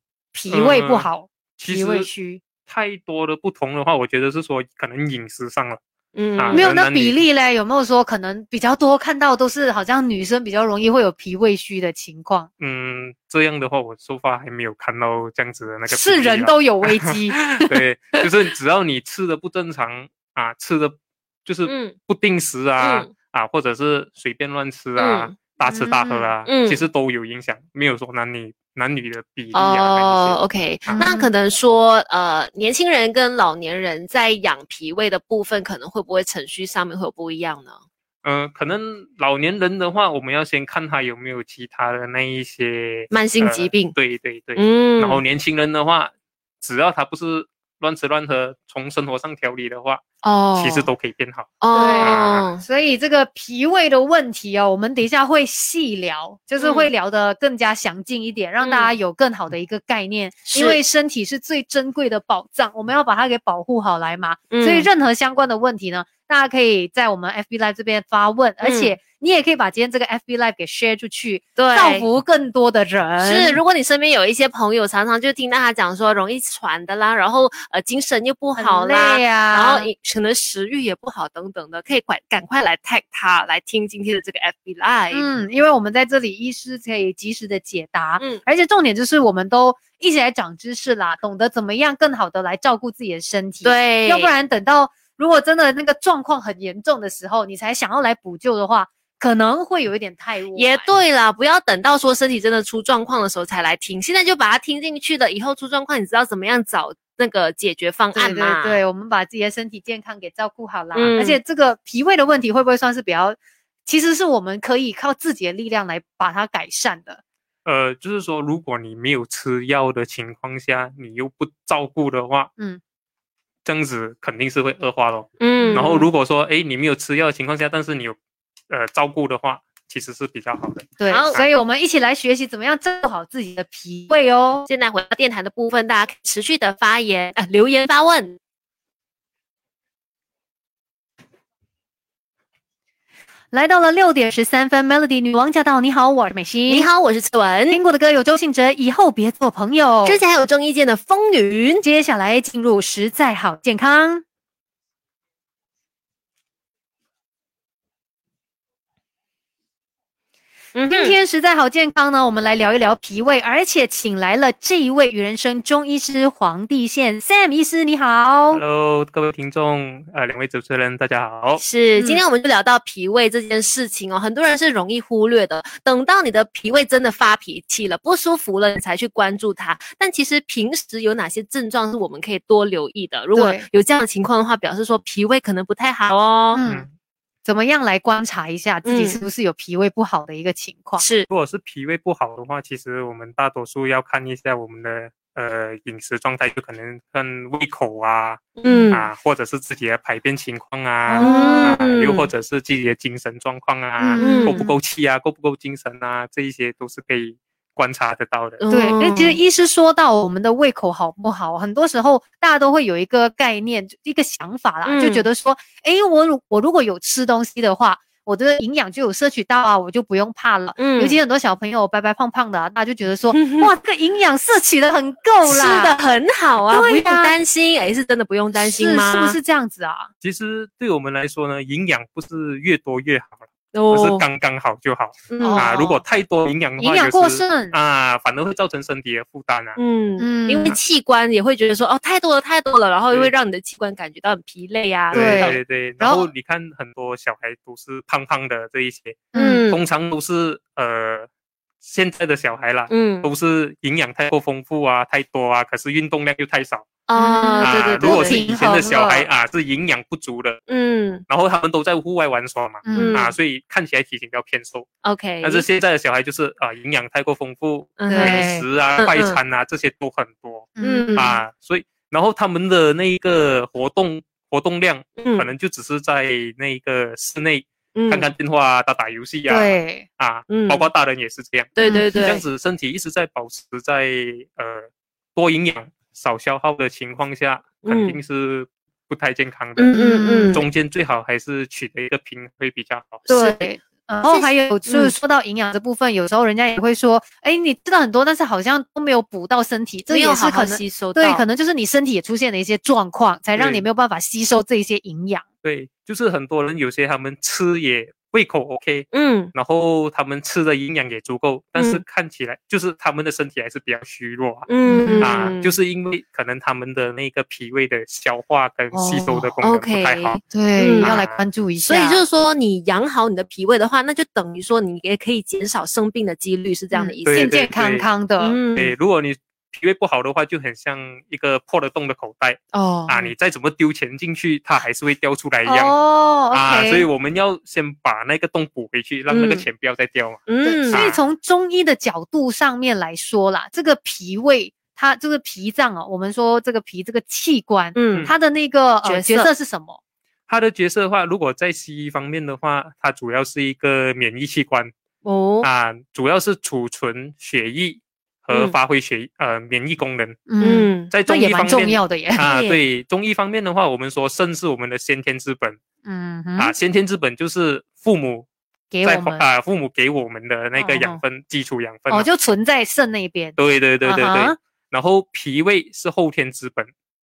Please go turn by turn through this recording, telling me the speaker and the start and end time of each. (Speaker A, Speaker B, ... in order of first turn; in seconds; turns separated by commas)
Speaker A: 0.3-2.4, Speaker B: 0.5-2.1, Speaker B: 2.6-5.8, Speaker C: 6.2-6.7, Speaker B: 6.4-7.2, Speaker A: 6.5-12.5, Speaker B: 12.6-31.1, Speaker A: 15.9-17.4, Speaker C: 21.6-22.0, Speaker C: 22.8-23.1, Speaker C: 25.0-25.4, Speaker A: 25.7-26.3, Speaker C: 26.4-26.8, Speaker C: 29.5-37.8, Speaker A: 31.0-31.3, Speaker B: 38.2-50.0, Speaker C: 43.1-44.0, Speaker C: 44.6-45.2, Speaker C: 50.2-50.9, Speaker B: 50.5-52.5, Speaker C: 51.6-52.6, Speaker A: 51.7-73.6, Speaker C: 56.6-56.9, Speaker C: 58.6-58.9, Speaker C: 60.5-60.8, Speaker C: 64.5-64.9, Speaker C: 68.6-69.0, Speaker C: 71.6-72.1, Speaker C: 73.2-85.3, Speaker A: 78.6-79.9, Speaker A: 85.1-101.0, Speaker C: 93.6-94.3, Speaker C: 100.5-108.8, Speaker A: 108.2-117.2, Speaker C: 110.9-111.4, Speaker B: 117.7-122.5, Speaker B: 123.7-128.2, Speaker C: 125.4-126.1, Speaker A: 125.6-126.0, Speaker B: 128.7-131.5, Speaker A: 131.0-134.7, Speaker C: 131.1-131.4, Speaker C: 134.7-138.4, Speaker A: 143.5-146.9, Speaker C: 146.7-147.8, Speaker A: 147.7-150.2, Speaker C: 150.1-151.8, Speaker A: 151.8-154.2, Speaker C: 160.8-161.2, Speaker A: 160.9-168.6, Speaker B: 168.5-171.6, Speaker C: 171.6-186.6, Speaker A: 172.0-172.2, Speaker A: 183.3-183.7, Speaker A: 186.5-186.9, Speaker B: 186.7-186.9, Speaker A: 187.4-191.0, Speaker C: 188.8-189.2, Speaker C: 191.0-191.3, Speaker B: 191.3-208.7, Speaker C: 198.6-199.1, Speaker A: 201.1-201.8, Speaker C: 201.2-202.3, Speaker A: 204.0-204.8, Speaker C: 204.2-204.6, Speaker C: 208.6-209.4, Speaker A: 208.7-226.0, Speaker C: 214.9-215.3, Speaker C: 220.8-221.2, Speaker C: 223.3-223.7, Speaker C: 225.4-229.4, Speaker A: 226.7-227.3, Speaker A: 228.6-230.1, Speaker B: 230.2-239.8, Speaker C: 233.7-234.2, Speaker C: 235.3-235.7, Speaker A: 235.4-236.0, Speaker A: 236.8-237.8, Speaker C: 239.8-245.6, Speaker A: 240.2-240.8, Speaker B: 245.1-251.3, Speaker A: 245.1-246.3, Speaker A: 249.3-249.7, Speaker C: 249.3-249.8, Speaker B: 251.8-257.0, Speaker C: 252.9-253.3, Speaker C: 257.1-258.4, Speaker A: 257.1-259.3, Speaker B: 257.6-260.6, Speaker C: 260.7-261.2, Speaker B: 261.3-264.9, Speaker A: 262.8-263.2, Speaker C: 262.9-263.3, Speaker C: 265.0-265.7, Speaker B: 265.4-290.0, Speaker C: 268.0-269.4, Speaker A: 268.1-268.6, Speaker A: 270.8-271.4, Speaker C: 270.8-271.3, Speaker C: 275.2-275.5, Speaker C: 277.9-278.3, Speaker A: 279.5-280.1, Speaker C: 280.5-280.9, Speaker C: 281.8-282.4, Speaker A: 281.8-282.4, Speaker C: 287.8-288.2, Speaker C: 289.8-290.7, Speaker A: 289.9-290.6, Speaker B: 290.5-293.3, Speaker A: 293.3-305.4, Speaker C: 293.3-293.6, Speaker C: 294.2-295.2, Speaker C: 300.1-301.4, Speaker B: 303.6-303.9, Speaker B: 305.6-314.7, Speaker C: 309.1-309.5, Speaker C: 311.8-312.0, Speaker C: 314.7-315.8, Speaker A: 314.9-315.3, Speaker B: 315.2-320.4, Speaker A: 318.9-319.5, Speaker C: 319.6-321.2, Speaker A: 320.5-322.2, Speaker B: 321.0-321.4, Speaker C: 321.9-327.6, Speaker A: 326.9-328.6, Speaker B: 327.3-328.1, Speaker C: 328.4-328.9, Speaker B: 328.8-336.0, Speaker C: 332.7-333.3, Speaker A: 335.6-337.1, Speaker B: 336.5-341.2, Speaker C: 339.3-339.7, Speaker C: 340.5-341.1, Speaker A: 340.6-350.0, Speaker C: 347.9-348.3, Speaker C: 349.0-349.5, Speaker B: 350.5-354.9, Speaker C: 355.2-355.7, Speaker B: 355.6-360.4, Speaker C: 358.5-358.8, Speaker A: 360.5-362.7, Speaker C: 360.6-361.1, Speaker B: 361.1-365.8, Speaker C: 362.5-362.8, Speaker A: 366.1-366.7, Speaker B: 366.6-368.5, Speaker A: 368.9-369.4, Speaker B: 369.0-372.3, Speaker A: 370.8-371.2, Speaker A: 372.1-374.6, Speaker B: 373.6-376.9